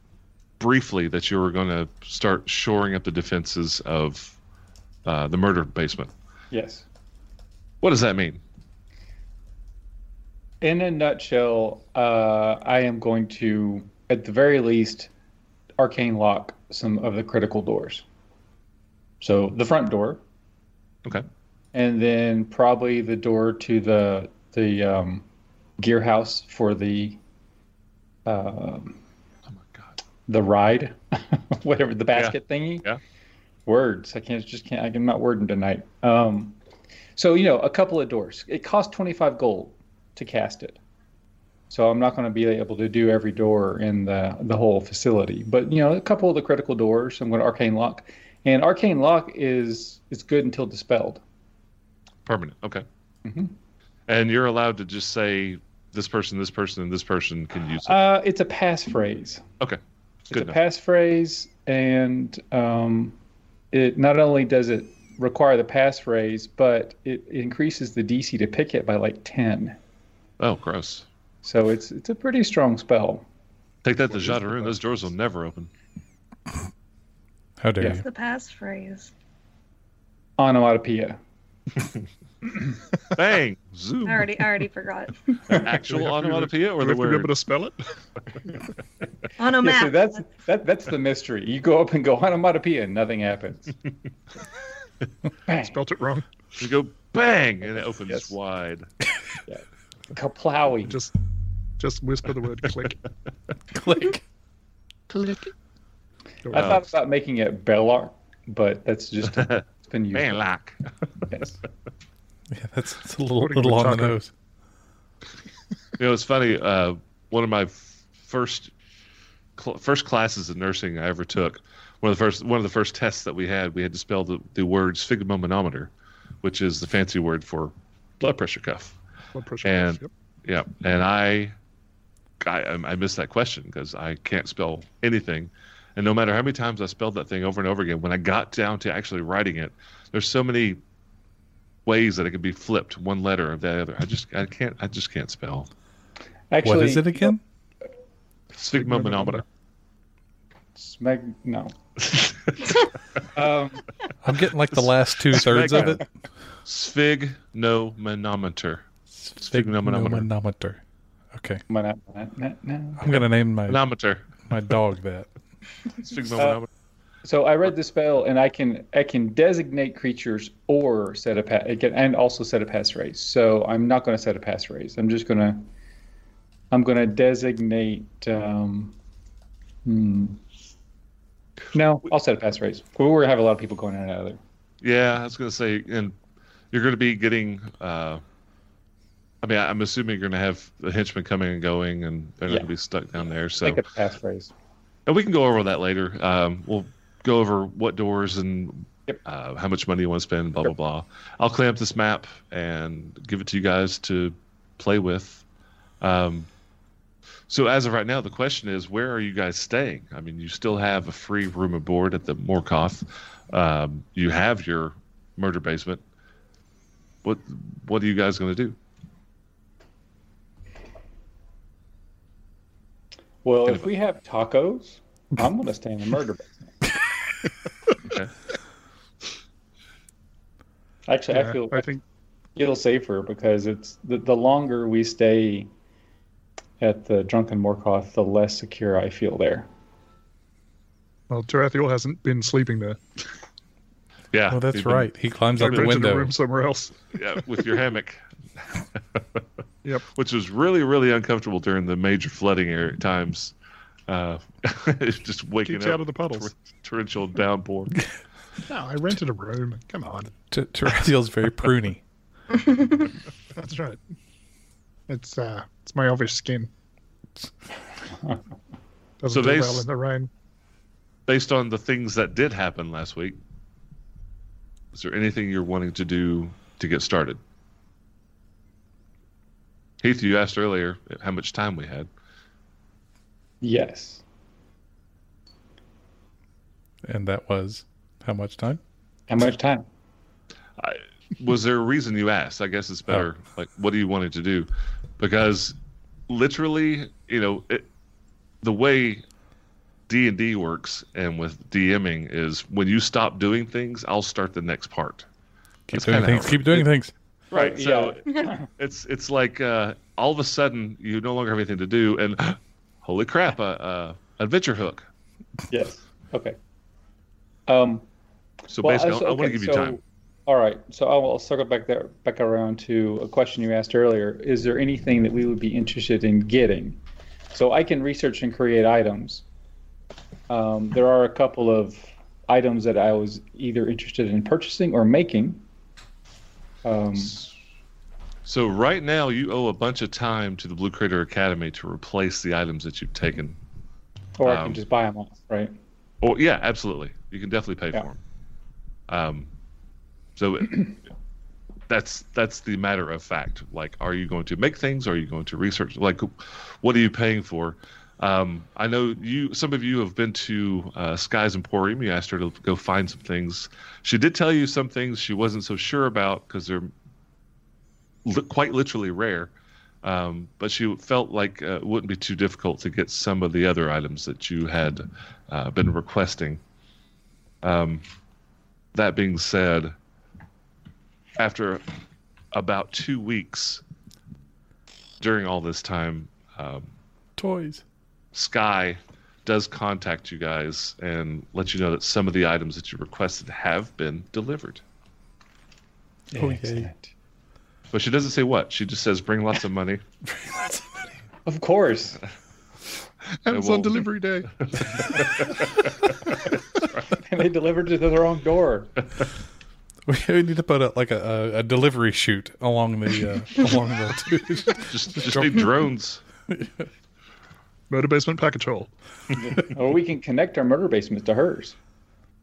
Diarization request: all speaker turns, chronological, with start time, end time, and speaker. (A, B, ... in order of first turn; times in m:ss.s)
0:00.6-0:04.4 A
0:05.0-0:06.1 A
0:06.5-0:06.8 B
0:07.8-0:08.4 A
0:10.6-0:15.1 B
0:15.8-0:18.0 B
0:19.2-0:20.2 B
0:21.7-0:25.2 B
0:25.8-0:27.2 B
0:28.2-0:29.0 B
0:30.3-0:32.9 B
0:32.1-0:33.0 A
0:33.6-0:36.6 B
0:37.2-0:40.8 B
0:41.7-0:51.2 B
0:52.2-0:52.8 A
0:53.2-0:53.5 B
0:54.1-0:58.0 A
0:57.8-0:59.4 B
1:00.3-1:03.1 B
1:00.3-1:00.6 A
1:03.7-1:09.8 B
1:10.4-1:11.0 A
1:11.4-1:13.2 B
1:13.8-1:15.7 A
1:14.2-1:14.7 B
1:17.6-1:18.0 C
1:18.0-1:19.1 D
1:20.4-1:21.2 B
1:23.1-1:24.4 A
1:24.0-1:25.6 D
1:25.5-1:27.3 A
1:25.8-1:27.8 E
1:29.4-1:30.2 D
1:29.6-1:33.7 B
1:35.5-1:35.7 B
1:35.6-1:36.2 E
1:36.6-1:38.9 A
1:39.5-1:41.0 B
1:40.9-1:41.1 E
1:41.8-1:43.0 E
1:43.7-1:44.2 C
1:45.1-1:45.5 E
1:46.4-1:46.8 E
1:46.5-1:50.4 B
1:46.6-1:46.8 A
1:49.3-1:49.6 A
1:50.1-1:50.8 A
1:52.5-1:54.3 C
1:53.4-1:54.2 E
1:56.0-1:58.7 A
1:59.6-2:05.9 A
2:06.4-2:09.0 A
2:09.3-2:10.1 E
2:09.6-2:11.5 A
2:12.4-2:20.8 A
2:21.8-2:25.7 A
2:26.5-2:27.4 B
2:26.6-2:27.4 C
2:28.6-2:29.4 A
2:28.7-2:29.4 E
2:30.8-2:31.7 B
2:32.1-2:32.8 A
2:33.3-2:33.8 B
2:34.2-2:36.0 C
2:35.3-2:36.0 A
2:36.6-2:38.8 A
2:39.2-2:40.8 C
2:39.4-2:40.3 A
2:41.3-2:41.6 C
2:41.7-2:43.1 B
2:43.0-2:43.8 C
2:43.7-2:44.4 A
2:44.5-2:45.3 C
2:46.0-2:46.7 A
2:47.2-2:55.7 B
2:56.7-2:58.9 B
2:59.8-3:00.4 B
3:01.7-3:04.4 B
3:04.8-3:06.2 A
3:06.7-3:08.2 A
3:09.4-3:13.8 A
3:13.6-3:14.5 B
3:15.1-3:25.4 A
3:26.0-3:26.5 A
3:27.5-3:36.0 A
3:37.2-3:38.8 A
3:43.4-3:46.7 B
3:48.0-3:48.3 A
3:51.1-3:51.9 B
3:51.3-3:52.0 E
3:52.6-3:55.7 B
3:56.8-3:59.7 B
4:01.3-4:03.0 E
4:04.3-4:06.0 A
4:04.5-4:06.3 C
4:05.6-4:07.1 E
4:07.1-4:09.4 A
4:10.1-4:13.5 A
4:14.1-4:18.0 A
4:15.6-4:16.5 E
4:18.7-4:20.3 E
4:20.5-4:22.0 C
4:22.6-4:23.0 D
4:23.5-4:24.0 E
4:25.1-4:26.7 E
4:29.2-4:30.3 E
4:29.3-4:29.9 A
4:31.3-4:33.4 A
4:34.9-4:37.4 A
4:40.0-4:42.1 A
4:43.6-4:44.2 B
4:47.0-4:48.8 C
4:49.3-4:49.8 B
4:50.8-4:55.7 A
4:56.3-4:57.9 A
4:58.6-4:59.2 A
5:00.1-5:05.2 A
5:05.9-5:06.9 A
5:05.9-5:07.1 C
5:07.5-5:15.1 A
5:07.5-5:08.7 B
5:15.7-5:16.6 B
5:17.7-5:18.0 B
5:18.7-5:20.0 A
5:18.8-5:27.0 B
5:27.5-5:29.4 B
5:30.5-5:35.6 B
5:36.8-5:37.4 B
5:38.4-5:43.6 A
5:44.4-5:45.7 B
5:44.4-5:44.8 A
5:46.2-5:48.2 A
5:49.1-5:49.5 A
5:50.4-5:51.0 A
5:51.9-6:06.9 A
6:08.2-6:09.5 A
6:10.0-6:16.6 A
6:17.6-6:18.0 A
6:18.9-6:19.9 A
6:21.4-6:21.8 A
6:22.5-6:23.8 A
6:25.2-6:26.9 A
6:27.4-6:27.8 C
6:28.3-6:34.8 A
6:36.3-6:37.1 B
6:36.4-6:36.9 C
6:37.9-6:40.0 A
6:40.2-6:41.1 C
6:41.4-6:42.2 B
6:43.4-6:44.5 E
6:43.5-6:46.0 A
6:47.1-6:48.9 B
6:50.0-6:55.6 C
6:54.8-6:56.2 A
6:56.5-6:56.9 C
6:57.9-6:58.9 E
6:59.3-7:01.8 B